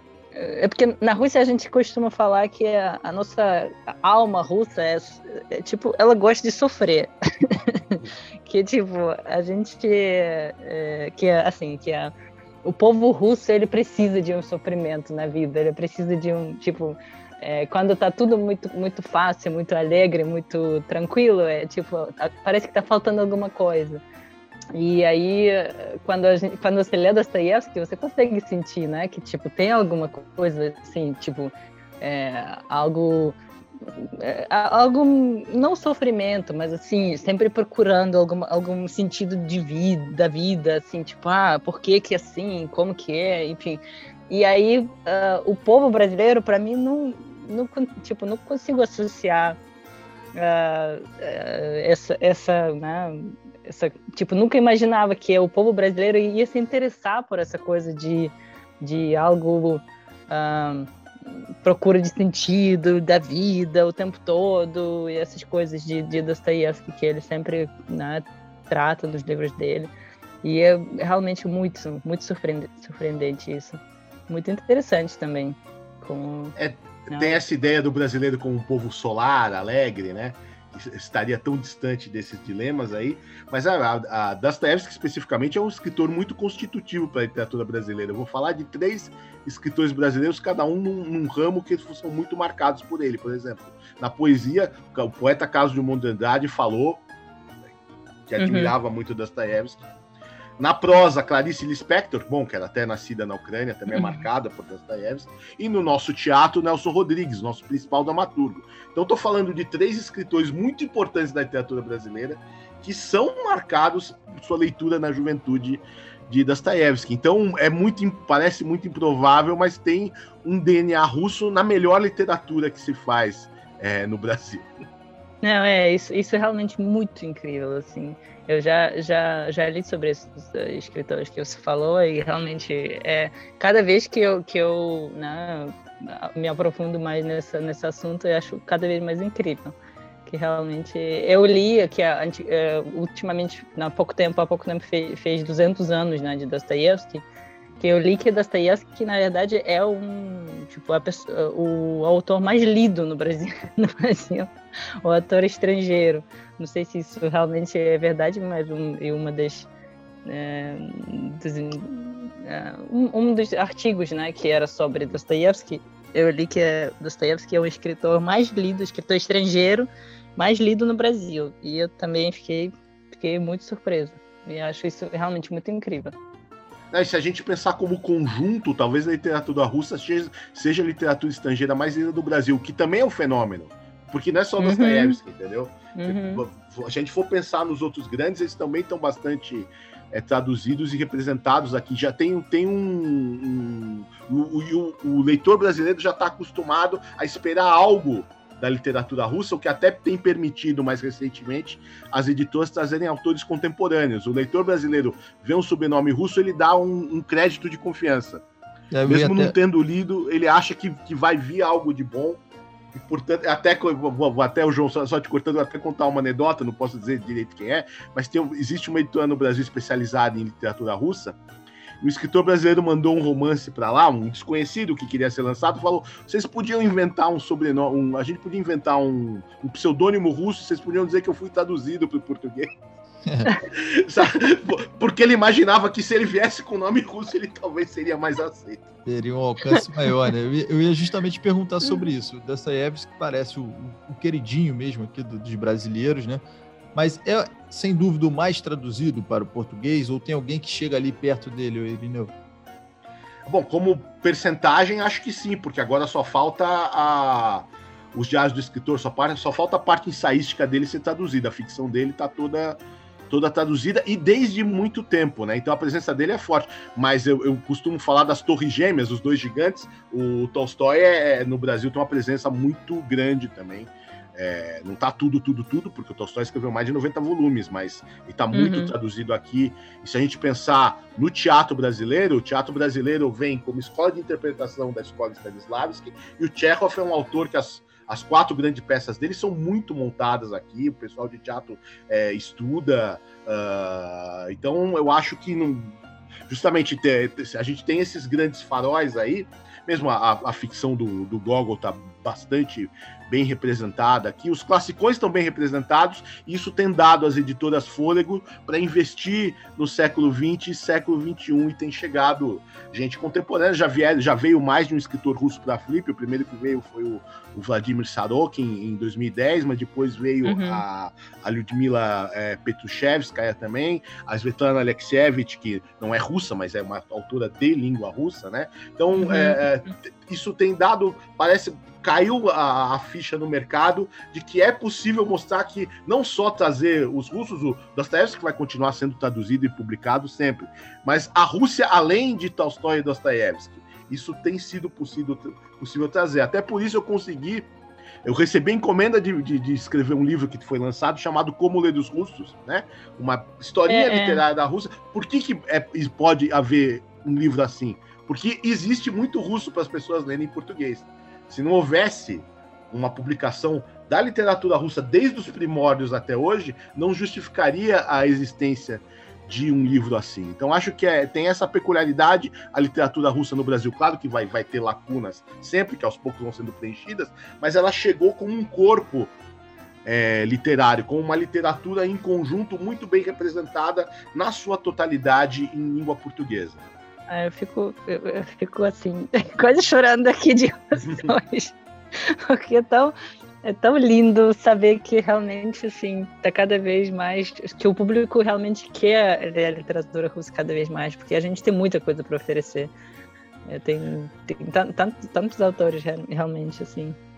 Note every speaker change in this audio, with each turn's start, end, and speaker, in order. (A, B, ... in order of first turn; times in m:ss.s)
0:00.4-0:12.1 A
0:12.6-0:24.0 A
0:24.8-0:49.6 A
0:50.4-1:09.9 A
1:10.4-1:16.6 A
1:16.6-1:37.0 B
1:17.1-1:17.4 A
1:38.3-1:39.8 B
1:38.4-1:38.7 A
1:40.6-2:04.7 B
1:43.9-1:44.2 A
2:05.4-2:19.8 A
2:20.3-2:27.2 A
2:27.8-2:34.5 A
2:35.0-2:39.7 A
2:40.3-2:56.1 A
2:56.9-3:28.4 B
3:04.6-3:05.2 A
3:06.0-3:06.4 A
3:28.9-3:29.6 C
3:29.1-3:32.4 B
3:32.9-3:41.4 B
3:42.0-3:52.8 B
3:53.2-3:53.5 C
3:53.8-3:58.9 B
3:59.0-4:06.4 C
4:06.9-4:12.3 C
4:13.5-4:22.8 B
4:23.3-5:47.7 B
4:38.5-4:38.9 A
5:20.4-5:20.8 A
5:29.1-5:29.6 A
5:48.2-6:19.4 B
5:53.9-5:54.4 A
6:20.0-6:26.8 B
6:27.3-6:42.9 A
6:31.0-6:31.4 B
6:43.7-6:47.2 A